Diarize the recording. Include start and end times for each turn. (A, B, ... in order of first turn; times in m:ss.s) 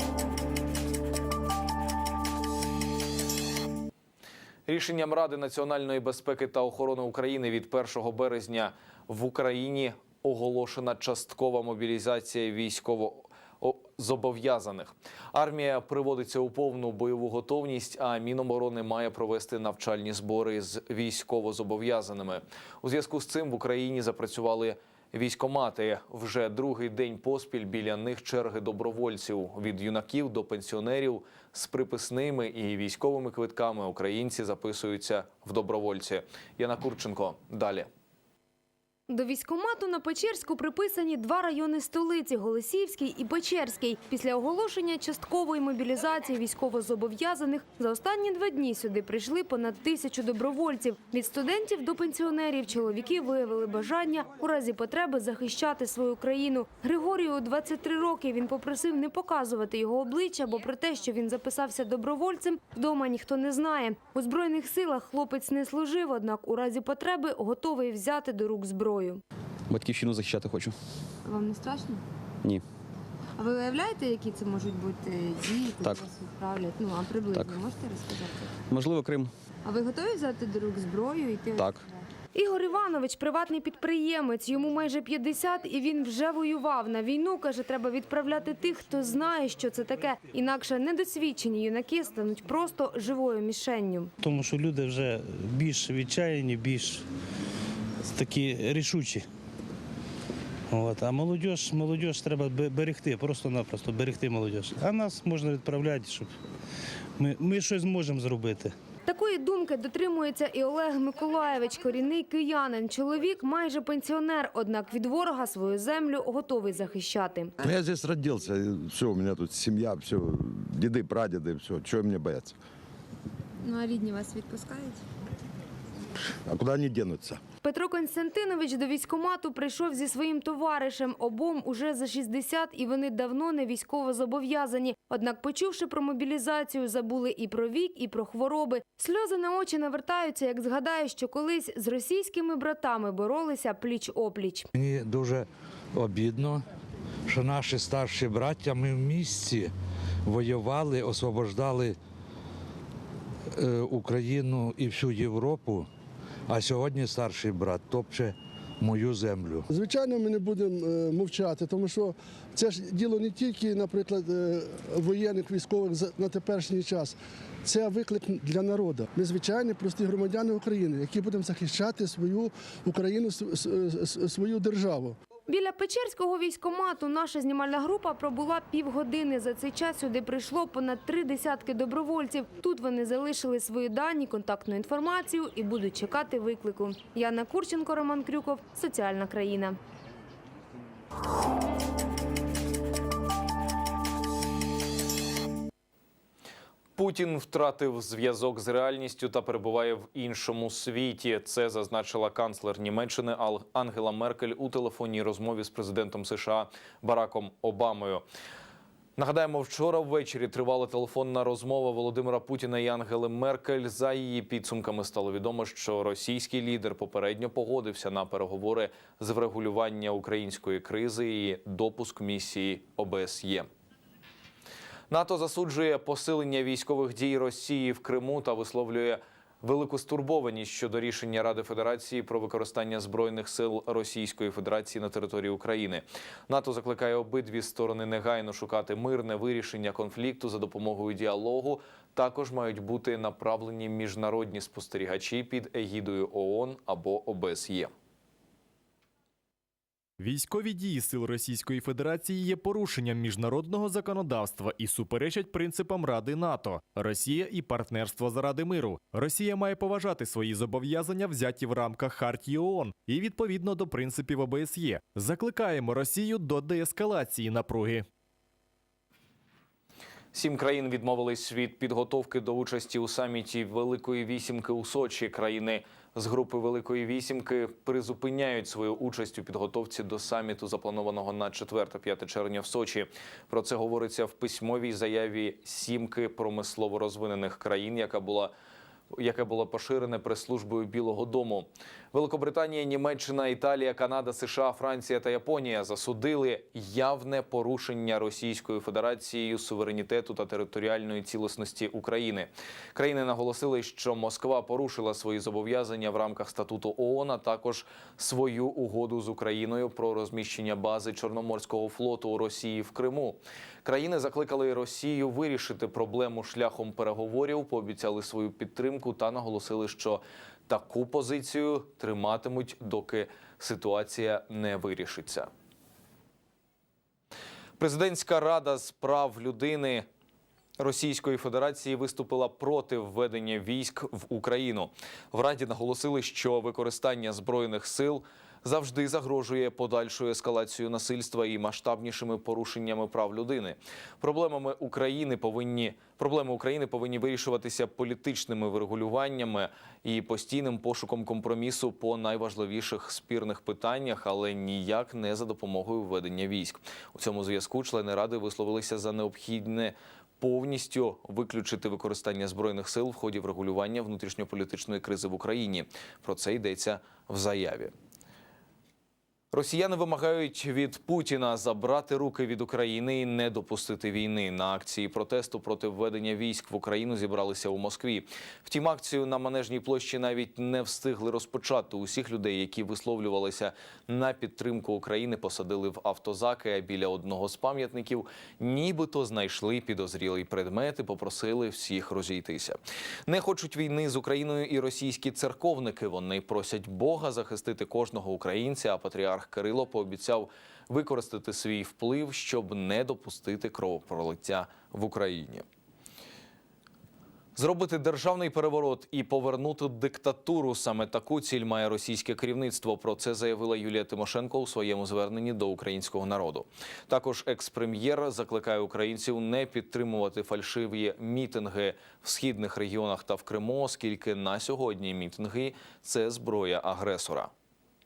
0:04.7-0:37.9 A
0:39.1-1:09.2 B
1:09.7-1:10.8 C
1:11.2-1:12.0 B
1:13.4-1:18.5 B
1:17.3-1:17.6 C
1:18.7-1:19.3 C
1:19.6-1:21.7 B
1:21.6-1:21.8 C
1:22.3-1:34.1 B
1:34.2-1:37.0 D
1:38.1-1:39.3 D
1:40.7-1:46.3 D
1:47.2-1:48.7 D
1:49.1-1:57.5 B
1:57.6-2:02.6 E
2:03.6-2:05.0 B
2:06.4-2:07.4 E
2:07.6-2:24.7 B
2:24.8-2:26.7 F
2:27.3-2:29.7 F
2:30.2-2:32.0 F
2:33.6-2:35.9 F
2:36.5-2:39.6 F
2:39.7-2:55.2 G
2:55.5-3:09.8 B
3:17.0-3:28.2 A
3:29.2-3:43.7 A
3:45.1-4:07.9 A
4:10.2-4:28.1 H
4:30.3-4:48.5 A
4:49.1-5:25.5 A
5:27.8-5:30.1 A
5:30.8-6:07.9 A
6:09.5-6:45.6 A
6:47.6-7:07.5 A